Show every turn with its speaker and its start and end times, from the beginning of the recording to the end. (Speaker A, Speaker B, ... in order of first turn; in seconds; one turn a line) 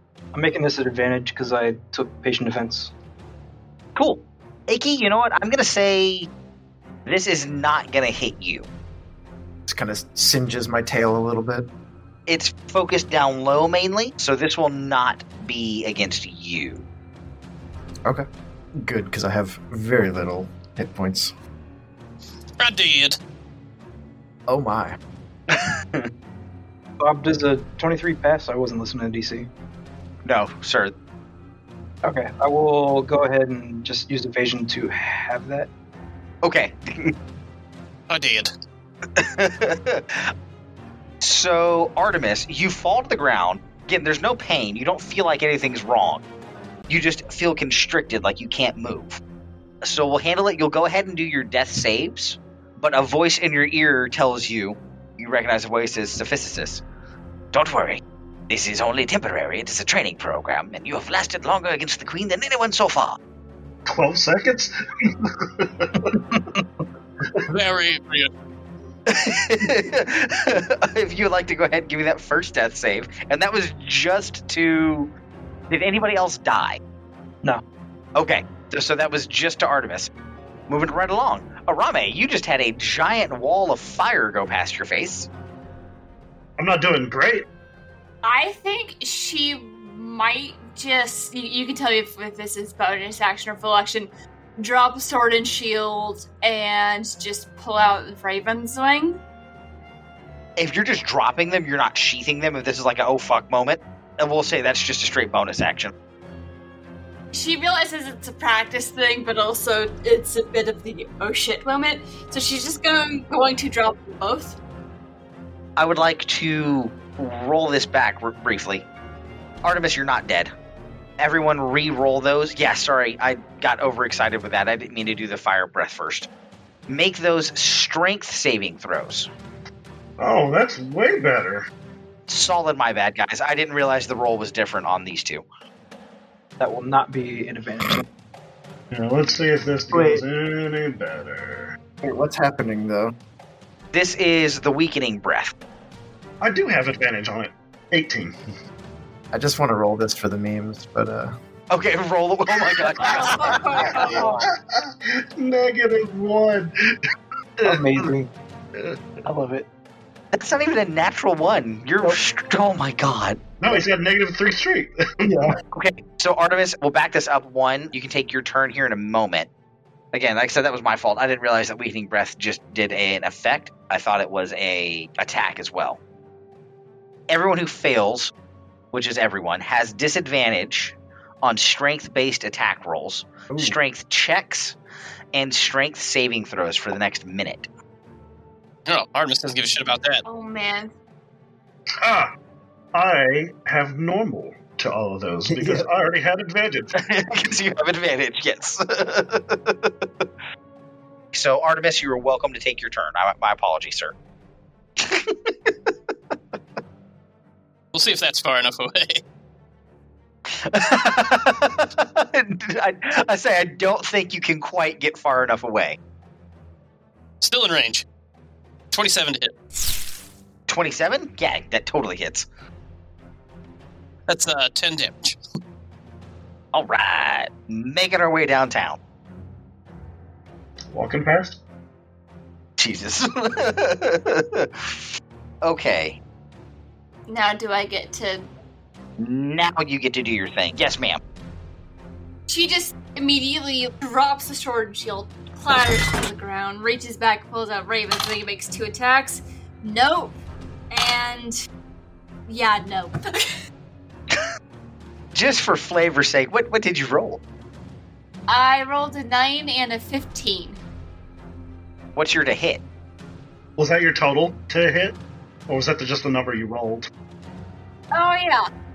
Speaker A: 0.3-2.9
Speaker B: 4.0-6.3
Speaker B: 7.1-8.7
Speaker C: 9.7-11.7
Speaker B: 12.3-16.9
Speaker C: 18.8-21.3
Speaker D: 22.6-23.2
Speaker C: 24.5-25.0
Speaker B: 25.5-26.1
Speaker A: 27.0-29.5
Speaker B: 30.2-30.9
Speaker A: 32.0-35.7
Speaker B: 36.4-37.1
Speaker D: 38.1-38.5
Speaker B: 39.2-40.3
Speaker B: 41.2-46.2
Speaker B: 46.9-49.2
Speaker B: 49.8-56.8
Speaker B: 57.5-63.2
Speaker E: 63.9-66.2
Speaker D: 67.5-68.3
Speaker B: 69.1-75.1
Speaker B: 75.7-76.8
Speaker B: 78.2-80.1
Speaker B: 80.7-85.3
Speaker E: 86.6-87.5
Speaker F: 88.2-99.2
Speaker B: 100.6-105.9
Speaker F: 107.3-114.6
Speaker B: 115.8-118.9
Speaker B: 119.6-120.5
Speaker B: 121.2-126.3
Speaker B: 126.9-129.3
Speaker E: 130.2-131.7
Speaker B: 132.3-135.4
Speaker A: 136.6-138.1
Speaker E: 138.9-141.8
Speaker C: 139.9-140.2
Speaker C: 142.0-143.1
Speaker B: 143.9-145.5
Speaker E: 146.4-148.3
Speaker C: 149.3-151.3
Speaker B: 151.7-153.6
Speaker F: 153.0-154.3
Speaker E: 153.8-156.7
Speaker A: 154.1-154.5
Speaker A: 157.6-158.3
Speaker A: 159.2-159.7
Speaker B: 160.3-163.4
Speaker E: 163.6-165.5
Speaker C: 165.3-165.5
Speaker B: 165.7-169.5
Speaker B: 170.1-176.0
Speaker B: 177.3-178.3
Speaker B: 178.9-184.8
Speaker C: 183.5-183.8
Speaker B: 185.3-187.7
Speaker D: 188.9-190.2
Speaker F: 190.2-190.9
Speaker E: 192.0-192.3
Speaker E: 192.9-196.9
Speaker C: 195.5-195.9
Speaker B: 197.0-199.9
Speaker B: 201.3-204.1
Speaker B: 205.0-205.7
Speaker D: 207.9-209.2
Speaker B: 210.5-216.0
Speaker D: 217.4-218.1
Speaker D: 218.9-219.5
Speaker B: 220.7-222.5
Speaker D: 224.3-225.4
Speaker B: 226.7-229.0
Speaker E: 230.9-231.6
Speaker B: 232.8-235.0
Speaker B: 235.6-236.2
Speaker F: 237.3-238.5
Speaker B: 239.2-241.2
Speaker F: 242.5-250.3
Speaker F: 250.9-251.6
Speaker F: 252.5-253.2
Speaker B: 255.3-257.4
Speaker F: 258.5-260.8
Speaker B: 262.2-262.8
Speaker E: 263.8-265.2
Speaker E: 265.7-267.1
Speaker F: 268.1-268.7